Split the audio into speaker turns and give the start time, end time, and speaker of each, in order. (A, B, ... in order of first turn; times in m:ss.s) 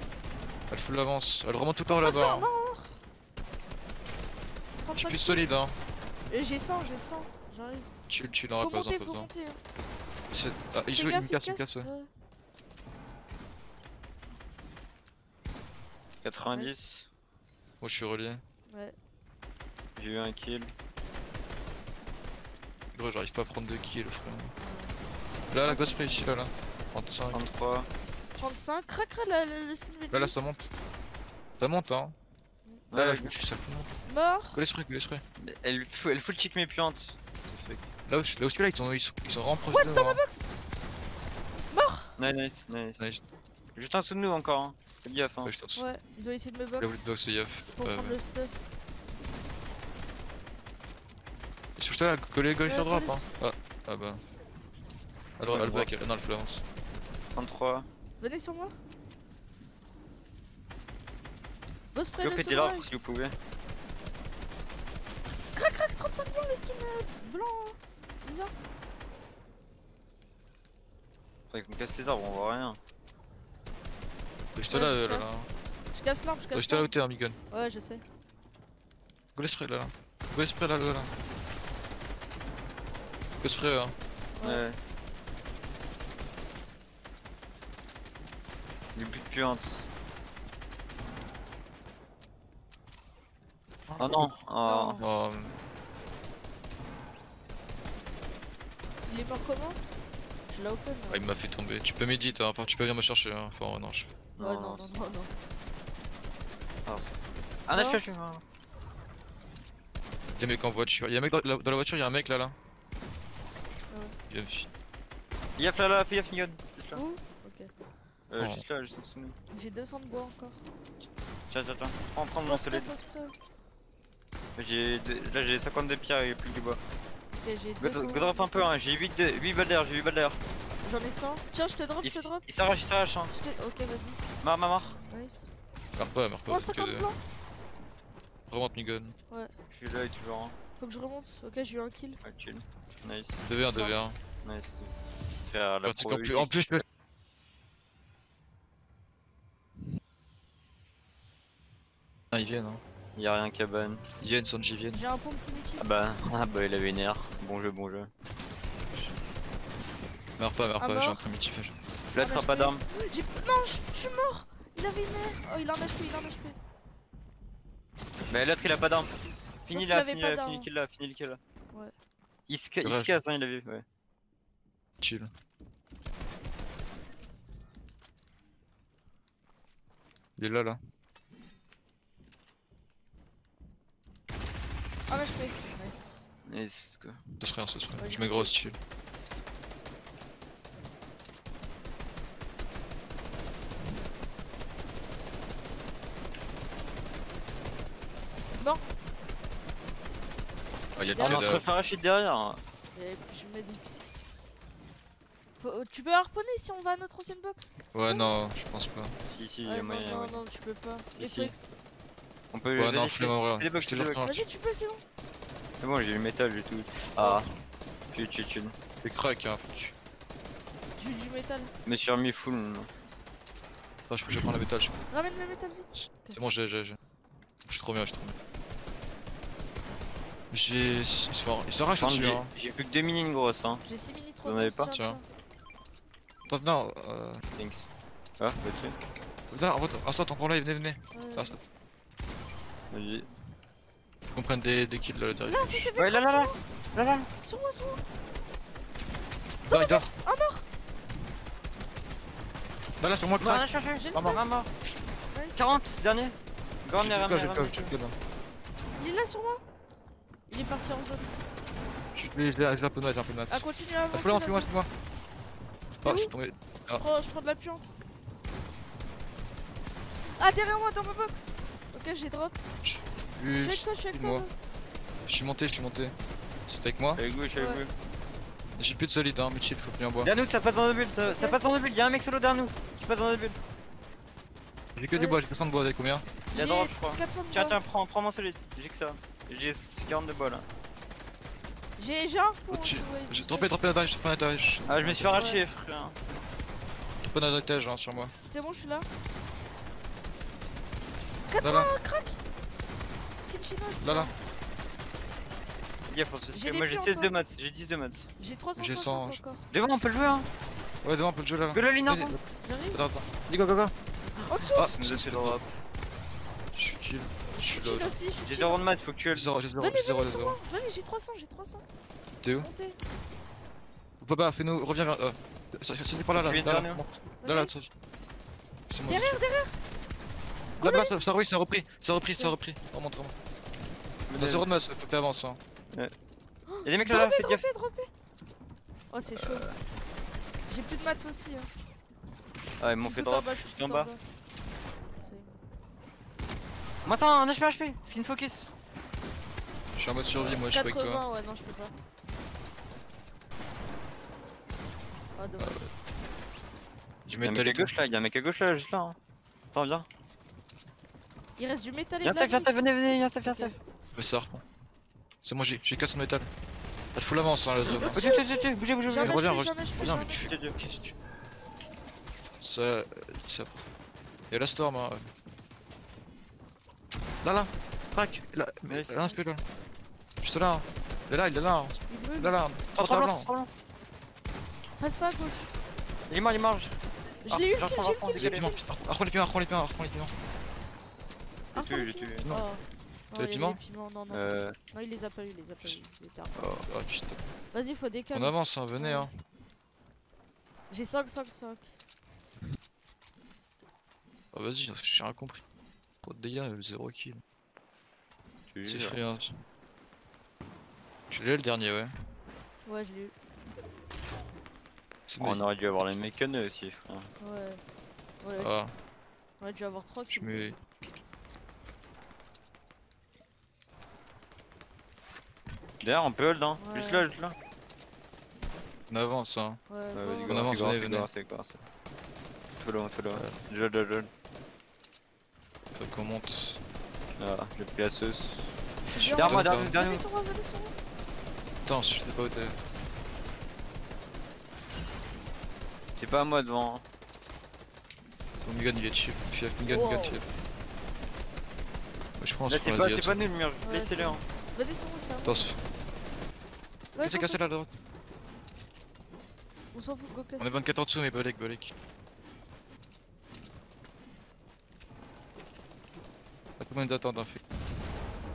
0:00.7-0:02.5 A
0:01.9-0:03.0 B
0:04.8-0:05.6 B
0:04.9-0:05.8 A
0:06.3-0:07.9 B
0:08.1-0:09.3 A
0:08.6-0:09.6 B
0:10.3-0:11.9 A
0:10.9-0:12.1 B
0:16.2-0:17.1 C
0:17.8-0:18.4 A
0:18.7-0:19.0 B
0:20.0-0:20.7 C
0:22.9-0:24.6 A
0:24.6-0:25.0 B
0:25.5-0:27.4 A
0:25.6-0:26.3 B
0:27.3-0:27.9 C
0:28.4-0:30.4 B
0:30.1-0:30.7 A
0:31.6-0:32.2 A
0:32.9-0:33.4 C
0:32.9-0:33.9 A
0:34.0-0:34.6 B
0:34.5-0:35.2 A
0:35.4-0:37.9 C
0:38.1-0:40.2 A
0:39.6-0:40.5 B
0:41.7-0:42.2 B
0:42.2-0:43.1 C
0:43.8-0:45.5 C
0:45.4-0:45.8 A
0:45.8-0:47.1 B
0:46.8-0:48.2 A
0:47.7-0:48.5 B
0:51.8-0:54.2 A
0:52.7-0:53.2 B
0:55.4-0:55.9 C
0:55.4-0:56.6 A
0:57.3-0:57.9 C
0:58.2-0:58.7 B
1:01.9-1:02.9 B
1:02.2-1:03.4 C
1:05.5-1:08.5 B
1:11.5-1:12.8 C
1:14.6-1:15.5 A
1:14.7-1:15.3 B
1:15.9-1:16.9 B
1:16.5-1:17.4 A
1:17.5-1:18.0 B
1:19.4-1:21.1 A
1:23.4-1:24.0 A
1:24.4-1:24.7 B
1:24.4-1:24.8 C
1:29.0-1:29.9 C
1:33.9-1:34.3 A
1:34.0-1:35.0 C
1:34.6-1:35.0 B
1:35.0-1:35.6 A
1:39.1-1:39.8 B
1:40.5-1:41.3 B
1:41.1-1:44.1 A
1:44.4-1:44.9 C
1:44.4-1:45.3 B
1:46.9-1:47.2 C
1:47.7-1:48.4 C
1:47.7-1:48.0 B
1:50.4-1:52.6 A
1:53.9-1:54.2 B
1:54.3-1:54.7 A
1:55.6-1:57.0 C
1:56.9-1:57.7 B
1:58.3-1:59.4 C
1:58.4-1:58.6 A
1:59.5-2:00.6 B
2:01.5-2:02.9 C
2:02.5-2:03.4 B
2:04.6-2:06.8 C
2:07.4-2:08.7 B
2:07.8-2:10.4 C
2:10.8-2:12.4 B
2:12.0-2:13.3 C
2:13.3-2:14.2 B
2:14.4-2:15.0 C
2:15.0-2:15.5 B
2:16.0-2:17.1 A
2:16.5-2:17.2 B
2:18.5-2:19.2 A
2:19.7-2:20.6 C
2:20.8-2:22.2 B
2:22.2-2:23.4 C
2:23.5-2:24.2 A
2:24.4-2:24.9 C
2:25.5-2:26.5 C
2:25.8-2:26.8 A
2:32.3-2:32.8 A
2:33.2-2:34.0 C
2:34.2-2:35.0 A
2:34.8-2:35.8 B
2:35.8-2:38.1 C
2:40.4-2:41.8 A
2:40.8-2:41.3 B
2:42.1-2:42.8 C
2:42.2-2:46.6 B
2:48.3-2:49.1 C
2:49.6-2:51.4 C
2:49.7-2:50.7 B
2:52.5-2:53.8 C
2:52.8-2:53.2 A
2:55.0-2:55.3 A
3:00.4-3:00.8 A
3:05.1-3:06.2 B
3:06.5-3:07.2 C
3:07.4-3:08.8 A
3:08.0-3:08.6 B
3:18.6-3:18.9 B
3:21.0-3:21.6 A
3:21.1-3:21.6 B
3:21.2-3:22.6 C
3:22.9-3:24.2 B
3:25.6-3:28.4 B
3:27.9-3:29.2 A
3:29.3-3:30.4 C
3:29.6-3:31.7 B
3:31.1-3:31.5 C
3:32.5-3:34.3 C
3:32.8-3:34.5 A
3:34.2-3:35.0 B
3:35.8-3:37.5 C
3:37.2-3:37.5 B
3:38.1-3:38.8 C
3:39.0-3:40.0 A
3:41.0-3:41.7 B
3:41.8-3:42.9 C
3:44.1-3:45.0 A
3:45.1-3:46.4 B
3:46.0-3:47.0 A
3:47.7-3:48.4 A
3:50.5-3:52.5 A
3:52.0-3:53.8 C
3:53.9-3:55.2 B
3:54.4-3:54.9 C
3:54.9-3:55.2 A
3:56.5-3:57.4 A
3:57.5-3:57.9 C
3:58.4-3:59.0 C
3:59.5-4:01.6 A
4:01.1-4:01.6 B
4:02.9-4:03.3 C
4:04.3-4:05.9 A
4:05.3-4:06.6 B
4:06.0-4:07.3 C
4:07.4-4:08.0 B
4:09.7-4:10.7 B
4:09.7-4:10.1 A
4:13.0-4:14.9 A
4:13.4-4:14.7 C
4:13.9-4:14.4 B
4:15.3-4:15.7 B
4:15.6-4:17.9 C
4:17.0-4:18.2 A
4:19.0-4:19.6 B
4:20.5-4:21.3 B
4:22.1-4:24.9 A
4:23.5-4:24.7 B
4:26.0-4:26.3 B
4:26.0-4:27.0 A
4:26.9-4:28.0 B
4:30.2-4:32.5 B
4:32.8-4:34.5 A
4:33.6-4:34.5 B
4:35.2-4:36.2 A
4:36.7-4:37.2 A
4:37.2-4:37.9 C
4:37.6-4:37.8 B
4:38.8-4:40.3 A
4:40.2-4:43.6 C
4:41.2-4:41.6 B
4:45.0-4:46.2 A
4:45.2-4:45.4 B
4:46.5-4:47.8 B
4:46.5-4:50.7 C
4:52.0-4:53.7 B
4:52.7-4:55.3 A
4:54.9-4:56.2 C
4:55.3-4:55.6 B
4:57.2-4:58.3 A
4:58.5-4:59.1 B
5:01.5-5:02.4 B
5:01.6-5:01.9 A
5:03.4-5:04.3 B
5:04.0-5:04.3 A
5:06.1-5:08.3 C
5:06.5-5:07.4 B
5:08.4-5:09.7 B
5:08.8-5:09.4 A
5:09.7-5:10.5 C
5:11.0-5:12.4 A
5:11.7-5:12.4 C
5:12.6-5:13.0 B
5:12.9-5:13.9 A
5:14.4-5:15.8 C
5:14.5-5:14.9 B
5:14.7-5:15.6 A
5:16.7-5:18.2 A
5:17.5-5:18.8 B
5:18.4-5:19.5 C
5:19.3-5:20.6 A
5:19.8-5:21.8 B
5:22.4-5:22.7 A
5:22.6-5:23.0 B
5:24.2-5:27.9 A
5:26.4-5:27.0 C
5:27.4-5:27.7 B
5:28.9-5:29.4 A
5:29.1-5:29.7 B
5:30.8-5:31.2 B
5:30.8-5:33.4 A
5:34.3-5:34.7 C
5:34.4-5:35.6 A
5:36.7-5:38.1 B
5:36.8-5:37.7 C
5:39.1-5:39.6 B
5:39.4-5:39.8 C
5:40.7-5:41.7 B
5:42.8-5:44.1 C
5:43.0-5:44.2 B
5:45.2-5:45.6 B
5:47.0-5:48.7 C
5:50.0-5:51.2 A
5:50.3-5:50.6 C
5:50.7-5:51.9 B
5:55.4-5:55.8 B
5:55.6-5:55.9 A
5:57.3-5:57.9 A
5:57.4-5:59.2 C
5:59.7-6:00.1 C
6:01.6-6:03.8 B
6:02.2-6:03.8 C
6:04.1-6:04.6 A
6:05.4-6:06.5 A
6:07.1-6:08.2 A
6:08.0-6:10.5 B
6:08.0-6:09.4 C
6:09.2-6:11.1 A
6:10.4-6:10.8 C
6:12.6-6:13.8 A
6:14.5-6:15.3 A
6:17.4-6:19.6 A
6:18.9-6:19.4 C
6:20.4-6:23.5 A
6:22.1-6:22.6 B
6:22.9-6:23.7 C
6:25.0-6:25.7 B
6:26.3-6:28.7 C
6:27.4-6:28.8 B
6:28.3-6:30.3 A
6:31.7-6:32.5 C
6:31.7-6:36.6 B
6:33.4-6:33.8 A
6:34.3-6:34.8 C
6:36.6-6:36.9 C
6:36.9-6:37.4 A
6:37.7-6:39.3 B
6:38.3-6:39.3 A
6:40.9-6:41.9 B
6:44.5-6:45.6 A
6:46.2-6:47.4 A
6:48.7-6:49.2 C
6:48.8-6:49.6 A
6:51.3-6:52.3 A
6:52.9-6:53.3 B
6:55.3-6:56.3 A
6:55.4-6:57.3 C
6:57.4-6:57.8 B
6:58.4-6:58.7 B
6:58.6-6:58.9 A
6:59.6-7:00.8 B
7:00.3-7:00.8 A
7:06.0-7:07.6 C
7:06.8-7:07.3 B
7:09.1-7:09.8 A
7:09.9-7:10.7 B
7:10.1-7:11.8 C
7:10.5-7:11.3 A
7:12.8-7:14.3 C
7:13.3-7:13.6 A
7:15.9-7:16.8 A
7:17.4-7:20.2 C
7:19.1-7:21.0 B
7:19.2-7:19.9 A
7:21.8-7:22.8 A
7:26.2-7:27.0 C
7:28.6-7:30.4 A
7:29.8-7:30.4 B
7:32.4-7:33.4 A
7:32.7-7:34.4 C
7:33.8-7:35.7 B
7:35.4-7:35.8 A
7:37.1-7:37.7 B
7:37.2-7:37.9 A
7:39.9-7:40.8 B
7:40.6-7:41.9 A
7:46.8-7:47.6 A